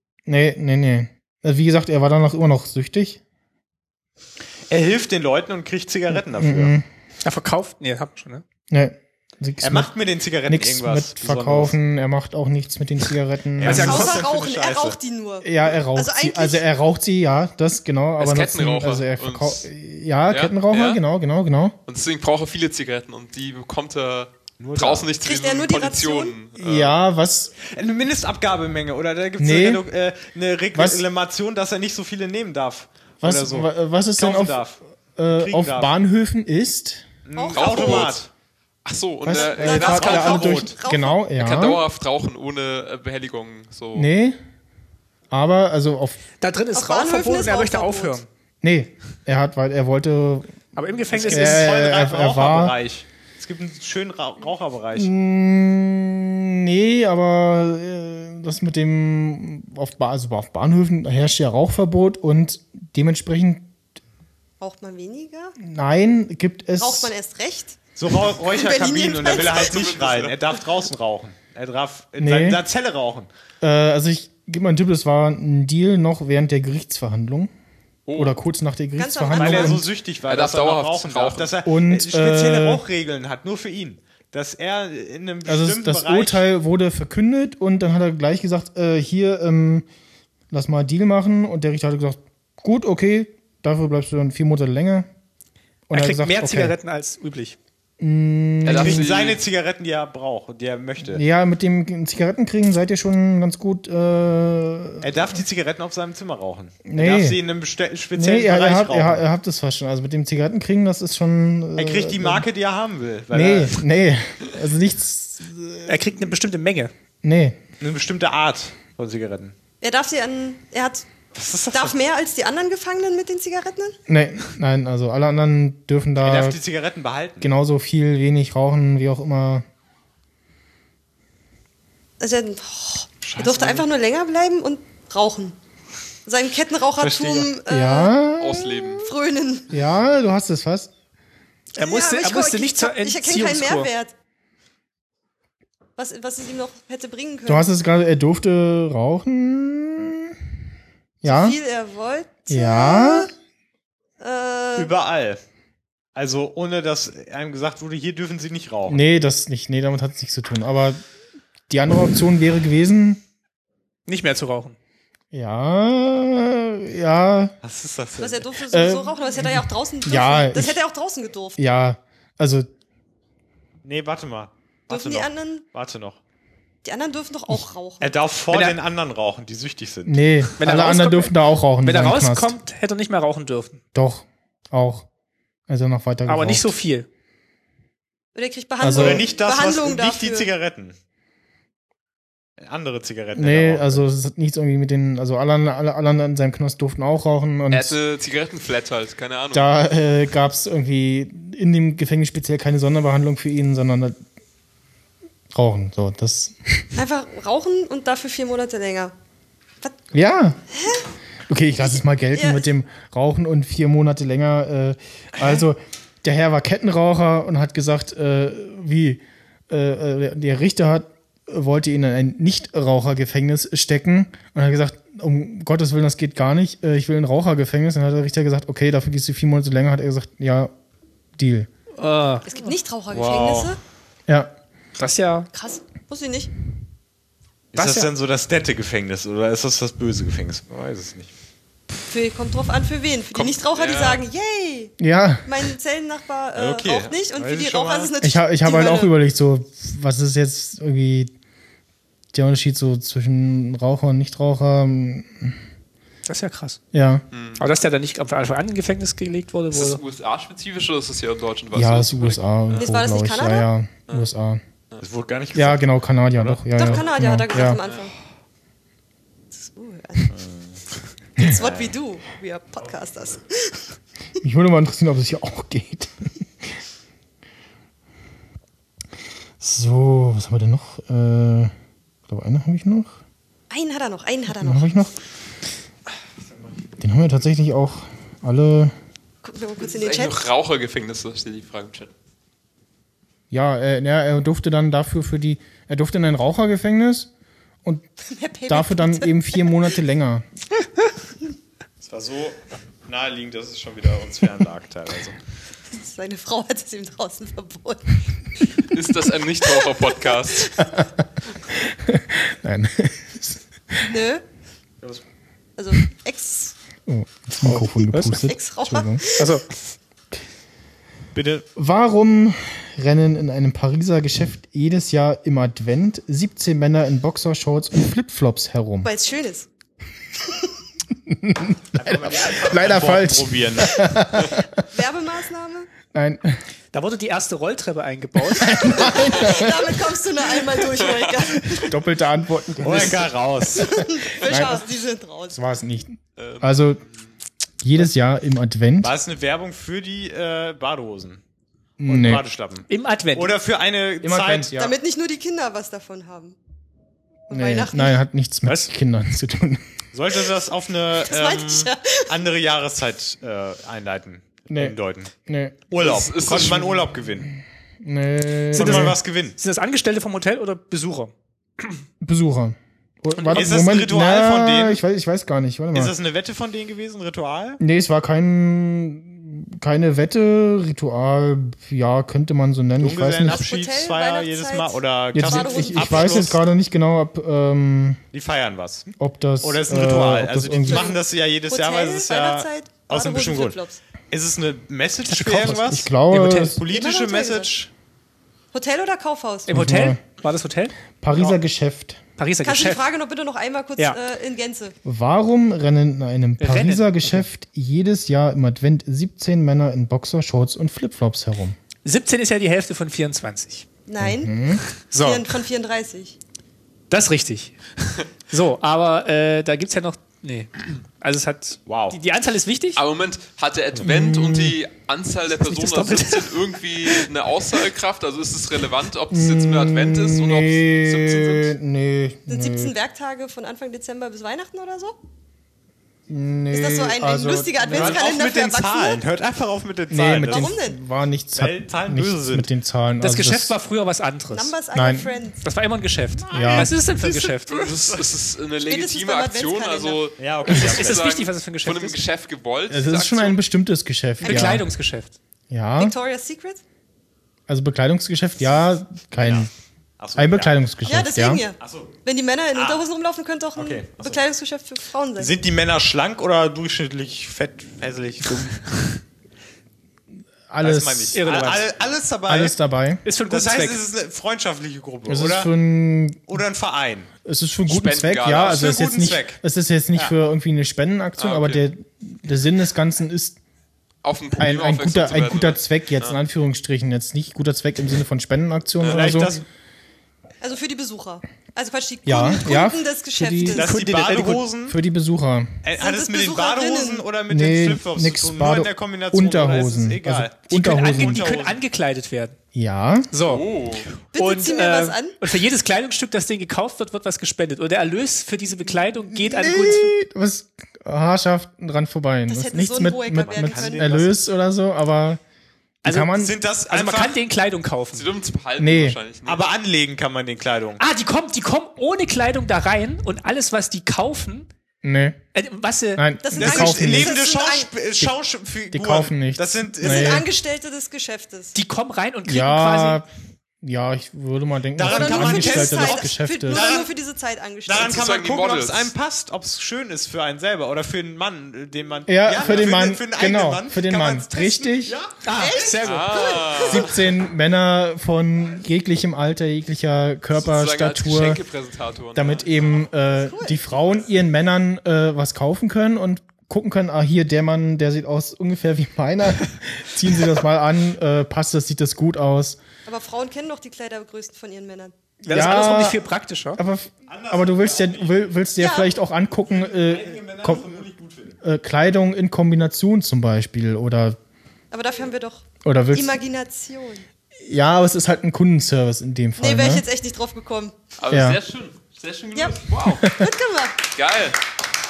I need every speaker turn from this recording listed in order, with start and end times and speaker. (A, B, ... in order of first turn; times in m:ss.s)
0:00.3-0:03.2 A
0:04.7-0:06.7 B
0:06.1-0:06.8 A
0:07.2-0:08.4 C
0:08.7-0:09.9 A
0:09.6-0:11.8 B
0:10.5-0:14.2 A
0:13.6-0:15.0 B
0:13.6-0:14.1 C
0:13.7-0:16.6 D
0:15.4-0:21.8 A
0:18.2-0:19.6 E
0:20.3-0:21.0 E
0:21.9-0:27.0 E
0:24.6-0:25.1 B
0:25.2-0:26.4 D
0:26.6-0:27.5 A
0:27.6-0:34.8 B
0:29.4-0:29.8 A
0:30.7-0:31.0 A
0:33.2-0:34.6 A
0:35.2-0:37.1 A
0:35.3-0:35.9 B
0:37.2-0:38.3 B
0:37.3-0:38.2 D
0:37.5-0:38.2 E
0:38.8-0:40.7 E
0:39.2-0:41.8 A
0:39.3-0:41.2 D
0:39.9-0:40.7 B
0:41.4-0:44.1 E
0:43.9-0:44.4 A
0:45.3-0:46.2 A
0:46.4-0:48.3 C
0:46.7-0:48.2 D
0:48.6-0:50.6 A
0:50.8-0:51.7 C
0:51.1-0:55.1 B
0:51.1-0:52.8 A
0:54.9-1:03.7 A
1:04.6-1:05.6 D
1:05.6-1:07.1 A
1:06.8-1:07.8 D
1:08.0-1:13.3 B
1:08.4-1:09.8 D
1:09.2-1:10.4 E
1:12.2-1:12.6 A
1:13.6-1:17.5 A
1:18.1-1:18.3 E
1:18.2-1:19.8 A
1:19.0-1:19.8 D
1:19.3-1:26.4 B
1:20.2-1:21.6 E
1:21.6-1:22.8 A
1:25.4-1:29.8 A
1:30.5-1:35.1 A
1:35.9-1:36.8 A
1:35.9-1:37.6 C
1:38.0-1:39.1 A
1:38.6-1:39.4 E
1:38.8-1:41.2 B
1:41.0-1:45.4 A
1:45.0-1:49.2 B
1:46.9-1:47.4 A
1:48.1-1:52.4 A
1:51.8-1:53.8 B
1:53.3-1:56.3 A
1:55.9-1:56.9 C
1:57.2-1:57.6 A
1:57.8-1:59.6 B
1:59.8-2:01.1 D
2:01.3-2:02.0 B
2:01.7-2:04.0 D
2:04.1-2:06.6 A
2:06.2-2:07.5 B
2:07.4-2:09.6 A
2:12.2-2:15.6 D
2:13.2-2:13.9 B
2:16.2-2:18.1 D
2:17.0-2:17.5 B
2:17.7-2:19.0 A
2:18.4-2:19.0 E
2:19.0-2:19.7 D
2:19.7-2:20.9 A
2:21.8-2:23.9 C
2:21.8-2:24.1 D
2:26.0-2:27.7 D
2:27.4-2:30.4 A
2:31.2-2:31.6 A
2:31.2-2:33.3 D
2:32.5-2:33.3 A
2:34.2-2:34.9 D
2:34.8-2:35.4 B
2:36.1-2:39.0 B
2:38.9-2:41.0 A
2:41.7-2:43.2 A
2:44.1-2:44.8 C
2:45.3-2:47.6 A
2:47.6-2:48.5 B
2:48.2-2:51.6 D
2:48.7-2:50.8 A
2:51.6-2:52.7 A
2:53.8-2:56.2 B
2:54.9-2:55.6 D
2:56.8-2:58.1 D
2:58.0-3:00.3 B
2:58.5-2:58.8 C
3:00.0-3:02.6 A
3:00.6-3:03.8 C
3:03.9-3:05.0 A
3:05.7-3:06.7 A
3:06.2-3:07.1 C
3:08.3-3:10.5 D
3:08.8-3:09.3 A
3:08.8-3:11.0 B
3:12.6-3:14.0 B
3:13.4-3:18.0 A
3:17.7-3:19.7 E
3:19.5-3:24.2 A
3:25.5-3:26.8 A
3:27.0-3:29.1 D
3:30.1-3:30.6 A
3:30.7-3:31.0 D
3:31.5-3:50.7 A
3:31.9-3:32.6 D
3:51.4-3:51.7 A
3:52.0-3:52.7 C
3:52.4-3:53.8 D
3:53.1-3:53.8 B
3:55.0-3:55.5 C
3:55.5-3:56.5 D
3:57.7-4:01.3 B
3:57.7-3:58.1 C
4:02.1-4:04.9 D
4:03.3-4:04.2 E
4:05.0-4:05.5 A
4:05.4-4:09.1 D
4:06.5-4:08.1 B
4:08.2-4:11.3 A
4:12.3-4:15.6 A
4:16.3-4:16.8 C
4:16.9-4:17.2 A
4:17.3-4:17.6 E
4:17.6-4:20.0 C
4:19.7-4:22.9 E
4:21.7-4:24.6 A
4:22.7-4:23.7 D
4:25.0-4:26.9 B
4:25.5-4:27.8 A
4:26.7-4:28.1 D
4:27.8-4:28.1 E
4:29.5-4:30.3 D
4:30.3-4:30.8 B
4:31.4-4:33.8 D
4:31.4-4:31.9 B
4:34.4-4:36.4 A
4:39.6-4:41.7 A
4:42.3-4:43.2 A
4:43.7-4:45.0 D
4:44.5-4:45.1 A
4:47.0-4:48.9 A
4:49.4-4:50.4 D
4:49.8-4:52.1 E
4:53.5-4:57.3 A
4:58.3-4:59.4 D
4:58.7-5:00.4 A
5:02.0-5:05.4 B
5:05.9-5:08.2 D
5:08.8-5:10.8 E
5:10.8-5:14.0 A
5:14.0-5:14.4 D
5:15.8-5:16.7 D
5:17.1-5:19.2 A
5:17.6-5:18.4 C
5:18.4-5:19.5 D
5:19.4-5:19.6 C
5:21.3-5:21.7 B
5:21.8-5:29.1 A
5:29.0-5:29.7 D
5:31.3-5:34.8 A
5:31.9-5:34.2 B
5:34.9-5:35.9 D
5:36.1-5:36.6 A
5:36.9-5:39.1 C
5:38.6-5:40.0 A
5:38.8-5:41.9 D
5:41.8-5:44.8 A
5:42.8-5:44.0 B
5:43.7-5:45.6 D
5:45.5-5:47.0 A
5:46.4-5:47.3 E
5:47.8-5:49.1 A
5:49.0-5:51.4 B
5:52.0-5:52.4 A
5:52.1-5:54.8 B
5:52.9-5:53.6 C
5:54.2-5:54.9 A
5:54.8-5:56.6 D
5:57.5-5:58.2 D
5:57.5-5:59.8 A
6:00.1-6:05.3 B
6:01.2-6:02.3 D
6:04.7-6:05.8 A
6:05.9-6:07.5 B
6:06.0-6:07.0 E
6:07.6-6:09.2 A
6:08.7-6:09.6 B
6:08.7-6:12.0 C
6:12.2-6:16.1 A
6:13.4-6:13.7 C
6:13.5-6:15.0 B
6:15.9-6:17.8 B
6:17.8-6:23.6 A
6:23.0-6:26.6 B
6:23.4-6:26.5 D
6:25.3-6:28.2 A
6:28.3-6:36.1 B
6:29.2-6:31.1 A
6:30.8-6:34.0 D
6:35.2-6:36.8 C
6:35.9-6:36.8 A
6:36.6-6:37.9 B
6:36.9-6:37.7 D
6:38.7-6:39.7 D
6:39.7-6:40.9 C
6:39.7-6:40.2 A
6:41.2-6:42.2 A
6:42.4-6:43.0 C
6:42.6-6:44.9 D
6:45.0-6:51.8 A
6:46.6-6:47.4 C
6:52.0-6:53.8 C
6:54.1-6:54.5 D
6:54.2-6:54.8 A
6:55.1-6:55.5 C
6:55.2-6:56.4 D
6:57.1-7:03.0 C
7:01.9-7:02.2 B
7:03.0-7:11.7 E
7:04.0-7:04.8 A
7:05.6-7:06.6 C
7:09.3-7:12.9 A
7:12.5-7:15.2 D
7:16.3-7:18.0 A
7:16.7-7:19.2 D
7:17.9-7:20.7 B
7:20.1-7:23.8 A
7:20.4-7:21.0 D
7:21.6-7:22.7 B
7:23.2-7:24.7 C
7:24.5-7:25.6 D
7:24.9-7:25.4 A
7:25.6-7:27.9 C
7:26.4-7:28.3 B
7:26.5-7:26.9 A
7:27.7-7:33.6 E
7:28.8-7:30.3 D
7:30.4-7:31.2 B
7:30.7-7:32.2 C
7:32.9-7:34.8 A
7:34.4-7:35.3 C
7:35.7-7:36.1 A
7:36.0-7:36.8 D
7:37.7-7:39.7 A
7:39.4-7:41.1 B
7:40.4-7:41.6 A
7:41.0-7:45.5 D
7:41.8-7:42.2 B
7:42.7-7:43.1 B
7:43.7-7:44.4 B
7:45.4-7:49.0 B
7:50.7-7:51.4 A
7:50.8-7:52.8 B
7:51.3-7:51.9 C
7:52.5-7:53.2 A
7:53.2-7:54.0 C
7:53.5-7:55.7 B
7:55.3-7:56.6 A
7:56.5-7:57.3 B
7:57.4-8:03.6 A
7:57.9-7:58.9 E
7:58.6-7:59.6 B
8:01.4-8:01.8 E
8:04.2-8:06.4 E
8:04.6-8:09.6 A
8:09.0-8:09.3 E
8:09.1-8:09.6 B
8:10.6-8:13.9 D
8:12.2-8:13.9 A
8:13.7-8:15.0 B
8:13.8-8:14.7 C
8:14.9-8:15.8 A
8:15.8-8:21.8 B
8:16.0-8:17.3 D
8:17.5-8:21.4 A
8:20.7-8:22.6 C
8:22.7-8:23.3 A
8:23.3-8:23.6 C
8:23.5-8:24.1 E
8:24.3-8:25.4 D
8:24.3-8:30.1 C
8:29.3-8:35.4 A
8:32.5-8:34.1 D
8:33.4-8:34.4 B
8:36.0-8:36.6 A
8:36.0-8:38.3 C
8:36.3-8:37.4 B
8:38.1-8:39.7 E
8:38.8-8:39.2 A
8:39.4-8:41.0 B
8:41.0-8:44.7 C
8:45.0-8:45.4 A
8:45.5-8:46.2 C
8:46.2-8:47.4 A
8:46.4-8:47.9 D
8:46.5-8:50.5 B
8:48.9-8:50.5 A
8:50.0-8:51.7 D
8:51.7-8:53.2 C
8:52.4-8:53.3 A
8:53.8-8:56.9 A
8:55.0-8:57.1 B
8:55.0-8:58.2 D
8:57.8-9:06.0 B
8:58.0-8:59.1 E
9:02.3-9:05.2 A
9:05.4-9:06.8 C
9:05.5-9:07.0 D
9:06.0-9:07.2 E
9:06.9-9:11.6 A
9:10.6-9:12.9 E
9:12.3-9:22.8 A
9:13.4-9:13.8 D
9:23.0-9:25.1 D
9:25.4-9:26.8 C
9:25.5-9:26.2 A
9:26.8-9:31.0 A
9:27.3-9:28.7 B
9:28.8-9:29.1 D
9:29.5-9:31.6 B
9:31.6-9:34.4 A
9:34.9-9:37.2 D
9:35.8-9:36.4 A
9:37.7-9:40.0 A
9:39.6-9:40.9 D
9:41.2-9:43.3 E
9:41.3-9:41.6 A
9:43.1-9:43.5 A
9:43.3-9:44.0 D
9:44.1-9:44.6 E